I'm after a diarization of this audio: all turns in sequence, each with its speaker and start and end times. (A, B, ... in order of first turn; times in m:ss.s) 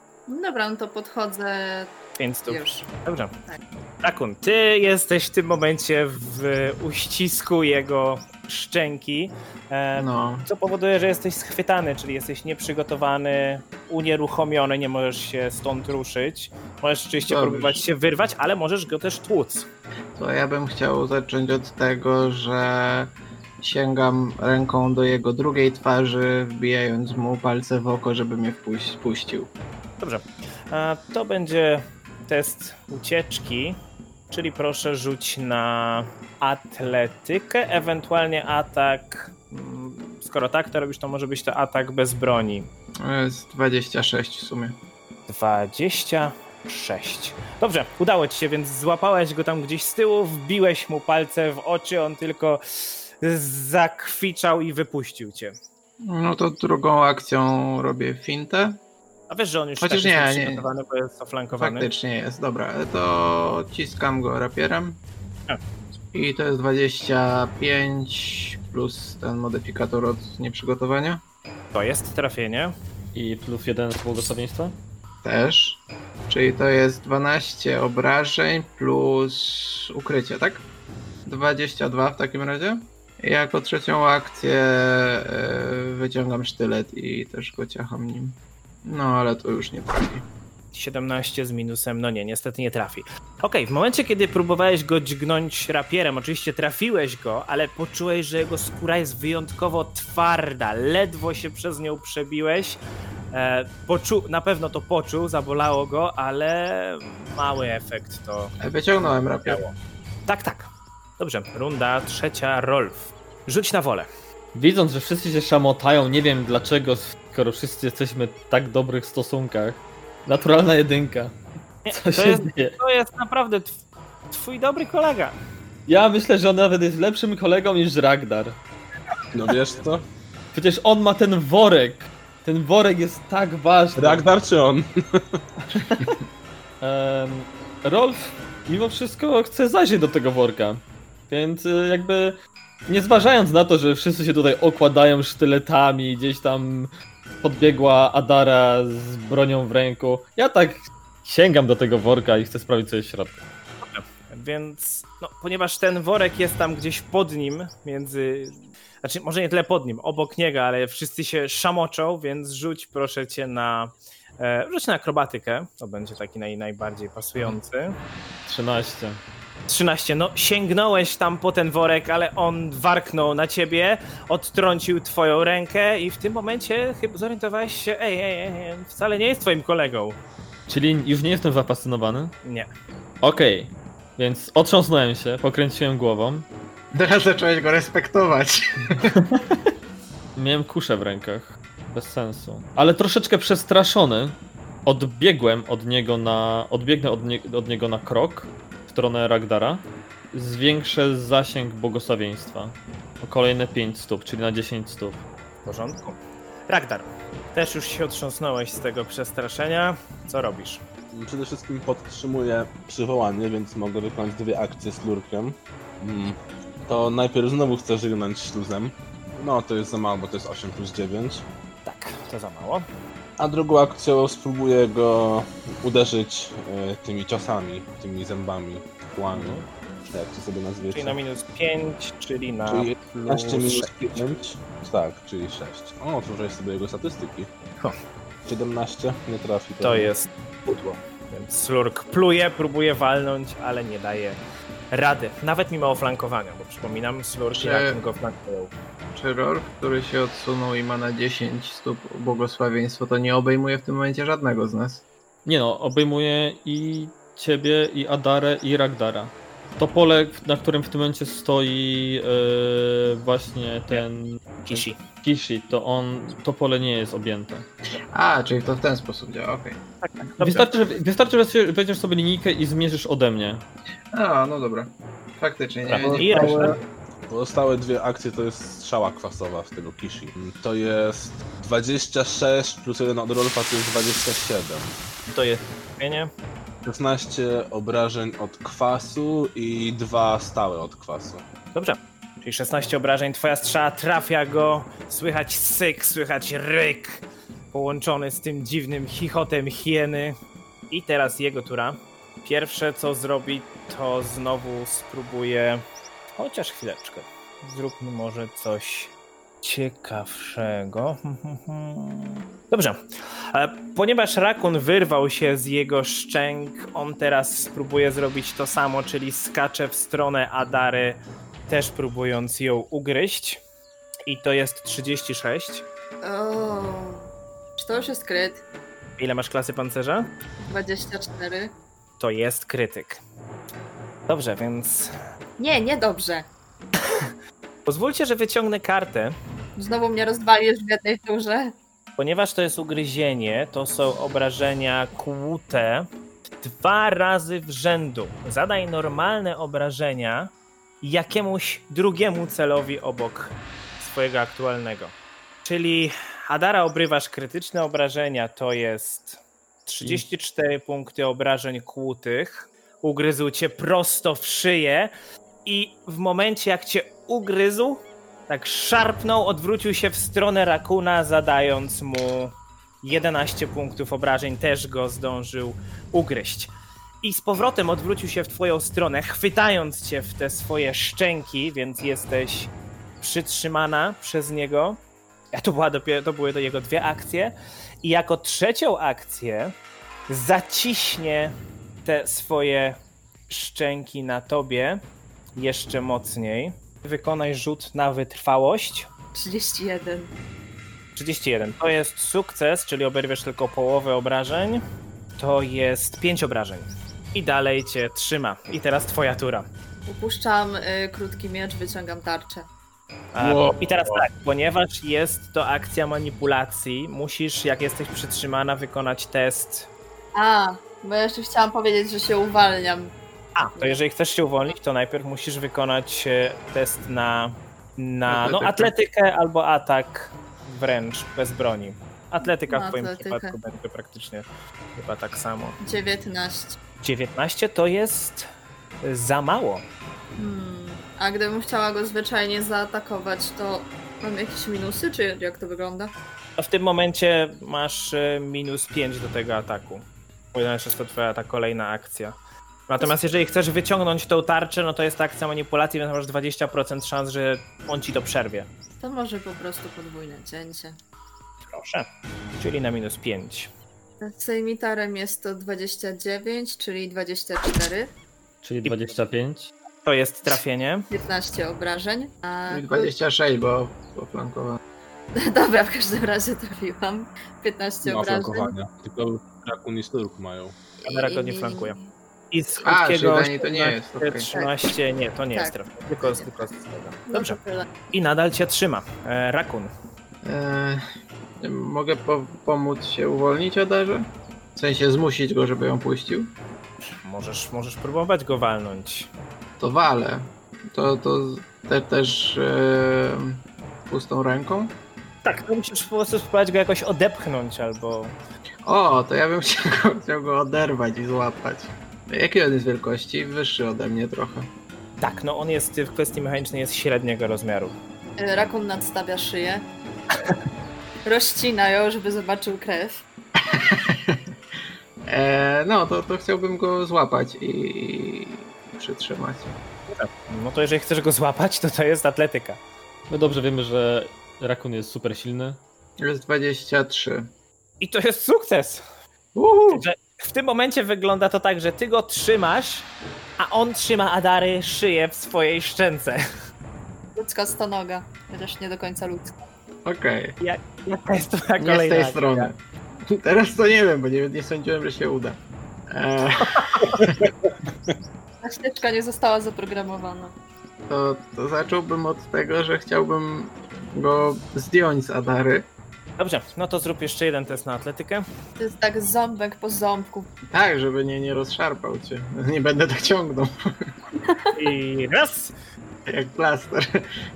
0:00.3-0:02.0 A
0:02.2-0:03.3 B
0:02.5-0:02.9 A
0:04.0-0:19.7 B
0:10.0-0:10.5 C
0:17.3-0:17.8 C
0:20.2-0:29.5 C
0:30.0-0:33.8 B
0:34.3-0:42.7 B
0:43.0-0:44.8 C
0:45.3-0:55.6 B
0:56.1-0:58.8 C
0:59.3-1:01.9 B
0:59.8-1:00.7 C
1:01.6-1:05.0 C
1:06.1-1:11.2 C
1:11.7-1:12.7 B
1:13.2-1:14.8 D
1:15.2-1:20.6 C
1:21.3-1:30.3 C
1:30.7-1:42.8 B
1:43.3-1:49.7 B
1:48.6-1:49.6 C
1:50.3-1:54.1 B
1:54.5-2:01.4 D
2:01.9-2:05.4 B
2:01.9-2:02.8 D
2:05.9-2:08.6 D
2:09.3-2:10.0 E
2:10.5-2:14.3 D
2:14.0-2:15.4 E
2:15.7-2:16.2 D
2:16.8-2:26.9 D
2:27.4-2:33.4 D
2:33.8-2:48.0 B
2:48.5-2:49.2 D
2:49.7-3:00.2 B
3:00.7-3:02.4 D
3:03.2-3:06.5 D
3:06.9-3:09.1 C
3:09.1-3:09.4 D
3:10.4-3:25.2 D
3:25.6-3:30.8 B
3:31.1-3:41.4 E
3:41.8-3:42.9 B
3:43.4-3:51.2 E
3:49.3-3:49.7 B
3:50.9-3:54.2 B
3:52.7-3:57.5 E
3:58.4-4:00.1 E
3:59.8-4:04.4 B
4:04.9-4:08.7 B
4:07.6-4:08.0 C
4:09.1-4:15.0 C
4:15.5-4:27.7 D
4:24.6-4:25.0 B
4:28.1-4:29.8 C
4:30.0-4:30.7 B
4:30.4-4:33.6 D
4:34.1-4:36.8 C
4:35.9-4:36.8 B
4:36.0-4:36.8 E
4:37.3-4:45.0 E
4:45.3-4:46.3 B
4:46.8-4:51.4 E
4:51.7-5:00.4 B
5:00.9-5:05.8 B
5:06.4-5:13.0 B
5:13.5-5:23.6 B
5:24.3-5:25.8 B
5:26.2-5:28.6 A
5:29.2-5:30.3 B
5:30.6-5:31.7 A
5:32.2-5:33.2 B
5:34.3-5:35.1 B
5:35.6-5:36.5 A
5:37.9-5:39.4 B
5:39.8-5:41.8 A
5:42.2-5:46.1 B
5:46.6-6:05.1 B
6:05.6-6:25.0 B
6:25.5-6:29.7 B
6:30.3-6:31.5 B
6:32.0-6:33.0 B
6:33.5-6:35.0 B
6:35.6-6:39.1 B
6:39.3-6:40.3 A
6:41.2-6:44.8 B
6:45.4-6:49.7 B
6:50.1-6:52.7 A
6:53.3-6:59.9 B
6:53.4-6:54.2 E
7:00.3-7:03.1 A
7:03.6-7:15.8 B
7:08.3-7:08.9 C
7:12.7-7:13.6 A
7:15.8-7:16.8 A
7:17.0-7:18.5 B
7:19.0-7:19.8 B
7:20.4-7:26.1 A
7:26.6-7:32.4 B
7:32.9-7:38.7 B
7:39.0-7:41.0 A
7:41.6-7:42.1 B
7:42.6-7:43.7 B
7:44.2-7:48.1 A
7:48.6-7:49.7 D
7:50.0-7:51.1 B
7:51.1-7:53.1 A
7:52.7-7:54.8 C
7:55.4-7:58.8 A
7:58.0-8:00.8 E
8:01.0-8:02.1 A
8:01.0-8:02.0 B
8:02.5-8:07.6 B
8:02.8-8:04.5 C
8:04.5-8:04.8 A
8:05.5-8:06.7 A
8:07.3-8:07.9 A
8:08.1-8:09.9 B
8:10.4-8:11.0 C
8:11.6-8:16.5 C
8:17.1-8:19.3 B
8:19.8-8:25.0 C
8:25.4-8:28.4 B
8:28.9-8:34.7 C
8:35.2-8:38.0 B
8:38.4-8:39.9 A
8:41.2-8:43.2 A
8:43.7-8:44.4 C
8:45.3-8:49.8 C
8:50.1-8:52.8 B
8:53.3-8:55.8 D
8:56.2-8:57.5 C
8:58.0-8:59.0 B
8:59.6-9:00.0 C
8:59.9-9:03.1 B
9:03.6-9:06.4 B
9:07.4-9:09.6 A
9:10.0-9:10.6 C
9:10.6-9:12.7 B
9:11.8-9:12.8 C
9:13.3-9:15.6 C
9:16.1-9:17.5 C
9:16.8-9:17.2 B
9:18.6-9:20.5 A
9:21.1-9:25.9 C
9:26.4-9:28.5 B
9:28.8-9:30.5 A
9:30.7-9:33.7 C
9:34.4-9:34.7 A
9:34.8-9:35.7 B
9:36.3-9:37.2 C